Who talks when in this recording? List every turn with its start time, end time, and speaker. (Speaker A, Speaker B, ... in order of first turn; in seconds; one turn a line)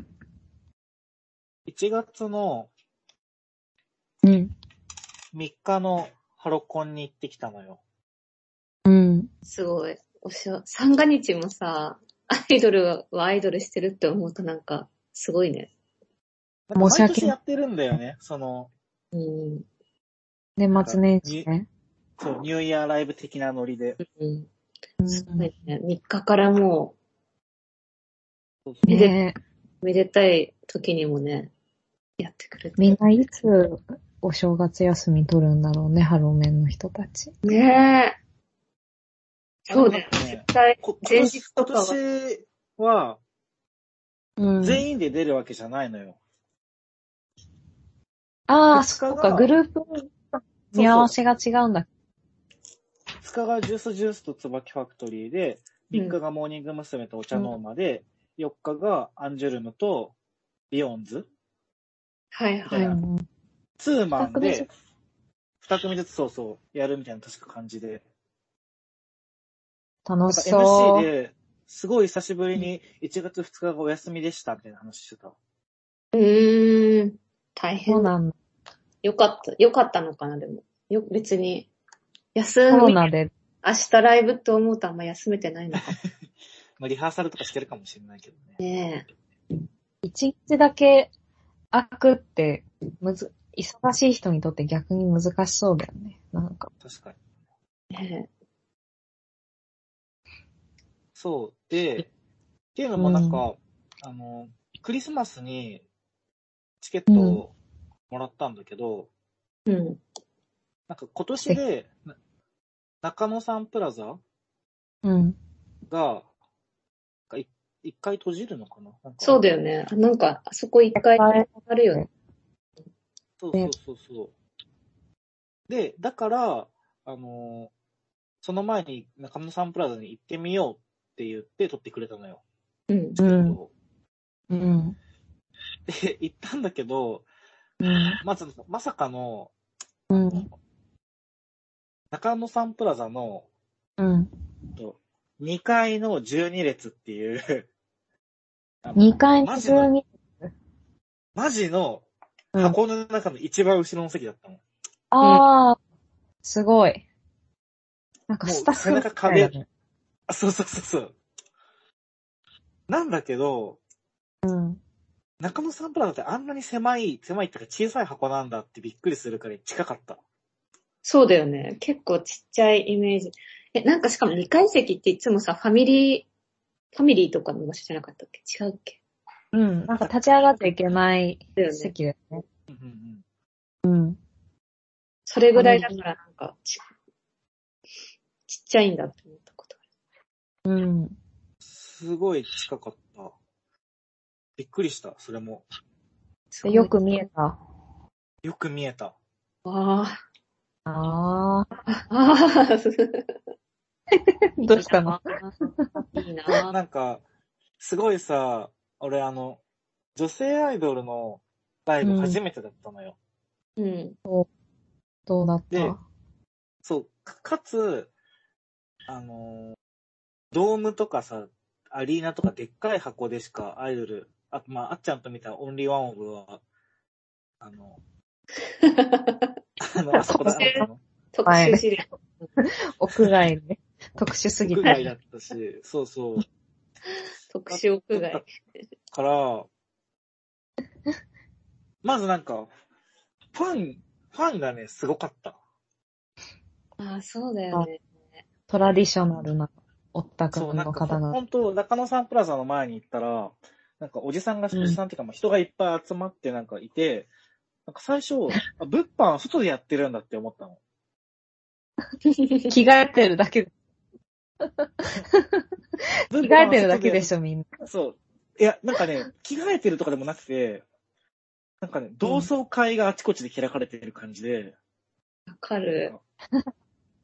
Speaker A: 1.7-2.7
Speaker B: 4.2-4.5
Speaker A: 5.3-7.8
Speaker B: 8.9-9.3
Speaker C: 9.5-15.7
Speaker A: 16.7-18.7
Speaker B: 16.8-17.3
Speaker C: 19.1-19.7
Speaker B: 20.6-21.7
Speaker A: 20.8-21.5
Speaker A: 22.2-24.0
Speaker C: 24.0-24.5
Speaker B: 25.0-25.5
Speaker C: 25.1-27.0
Speaker B: 28.9-29.4
Speaker C: 28.9-29.1
Speaker C: 29.8-31.5
Speaker C: 32.2-33.0
Speaker B: 32.8-37.3
Speaker C: 37.4-38.2
Speaker C: 39.7-42.0
Speaker A: 39.7-43.2
Speaker B: 44.4-44.9
Speaker A: 44.6-46.2
Speaker B: 48.5-50.1
Speaker A: 48.7-49.5
Speaker B: 50.7-51.9
Speaker A: 50.7-51.1
Speaker A: 53.2-60.1
Speaker A: 60.7-61.3
Speaker C: 62.3-62.9
Speaker A: 62.7-63.0
Speaker B: 62.7-63.2
Speaker A: 63.8-64.7
Speaker C: 64.2-64.7
Speaker A: 65.6-68.0
Speaker B: 70.1-71.1
Speaker A: 70.3-75.3
Speaker C: 76.1-78.1
Speaker B: 77.9-78.3
Speaker C: 79.0-81.7
Speaker C: 82.3-83.0
Speaker B: 82.7-83.3
Speaker C: 83.6-85.9
Speaker A: 85.7-86.0
Speaker A: 86.8-88.6
Speaker C: 88.6-89.1
Speaker B: 90.0-91.1
Speaker B: 91.7-96.7
Speaker A: 96.8-97.2
Speaker C: 97.9-98.3
Speaker A: 101.2-102.1
Speaker A: 102.8-105.8
Speaker B: 103.0-103.4
Speaker A: 106.8-107.5
Speaker B: 107.1-107.4
Speaker A: 108.1-109.1
Speaker C: 109.7-110.0
Speaker A: 110.9-112.0
Speaker A: 113.0-114.2
Speaker B: 115.0-115.4
Speaker A: 115.9-116.3
Speaker A: 117.3-119.4
Speaker C: 119.2-122.0
Speaker B: 121.0-122.1
Speaker A: 123.4-124.3
Speaker A: 125.7-127.7
Speaker A: 128.4-132.4
Speaker C: 132.9-133.2
Speaker A: 133.2-133.7
Speaker B: 133.2-133.6
Speaker B: 134.5-135.0
Speaker A: 135.9-137.2
Speaker B: 137.8-138.2
Speaker A: 138.2-139.5
Speaker B: 140.1-140.5
Speaker A: 140.2-140.4
Speaker A: 142.1-143.5
Speaker B: 144.0-144.3
Speaker A: 144.8-147.7
Speaker A: 148.8-149.9
Speaker B: 149.0-150.5
Speaker A: 151.4-152.1
Speaker A: 152.6-154.6
Speaker B: 155.1-155.8
Speaker B: 156.4-157.0
Speaker B: 158.3-159.7
Speaker A: 158.4-159.5
Speaker A: 160.3-161.1
Speaker A: 162.9-163.8
Speaker B: 164.4-164.8
Speaker A: 165.4-170.2
Speaker C: 171.1-176.3
Speaker C: 176.9-179.0
Speaker B: 179.5-182.4
Speaker C: 181.6-181.9
Speaker A: 182.7-183.2
Speaker B: 183.8-184.2
Speaker C: 185.3-186.8
Speaker B: 185.6-186.0
Speaker C: 188.5-189.8
Speaker B: 190.7-191.2
Speaker A: 191.6-193.3
Speaker A: 194.6-195.6
Speaker C: 196.5-197.2
Speaker B: 196.7-197.6
Speaker A: 198.4-199.1
Speaker C: 199.7-200.2
Speaker B: 200.9-201.7
Speaker C: 201.9-203.3
Speaker B: 204.1-206.1
Speaker C: 204.7-205.5
Speaker C: 206.1-206.7
Speaker A: 206.7-207.2
Speaker A: 207.8-209.6
Speaker A: 210.2-213.2
Speaker B: 212.0-212.4
Speaker C: 213.8-214.2
Speaker B: 215.3-216.0
Speaker A: 216.8-218.1
Speaker A: 219.1-219.8
Speaker A: 220.5-226.6
Speaker A: 227.6-228.0
Speaker C: 228.8-229.4
Speaker A: 229.8-231.0
Speaker B: 230.2-230.9
Speaker C: 230.4-232.4
Speaker B: 231.5-231.8
Speaker B: 232.6-235.1
Speaker A: 234.7-236.4
Speaker C: 237.5-238.4
Speaker A: 237.7-238.4
Speaker A: 239.1-239.7
Speaker A: 242.0-242.7
Speaker A: 243.5-245.6
Speaker C: 247.0-248.0
Speaker B: 248.7-251.4
Speaker A: 250.5-257.3
Speaker B: 254.7-255.0
Speaker A: 257.9-260.8
Speaker C: 262.4-262.7
Speaker B: 262.7-263.7
Speaker B: 264.8-265.6
Speaker A: 266.3-267.3
Speaker B: 266.4-267.7
Speaker A: 267.9-270.8
Speaker A: 271.8-274.8
Speaker C: 275.5-276.1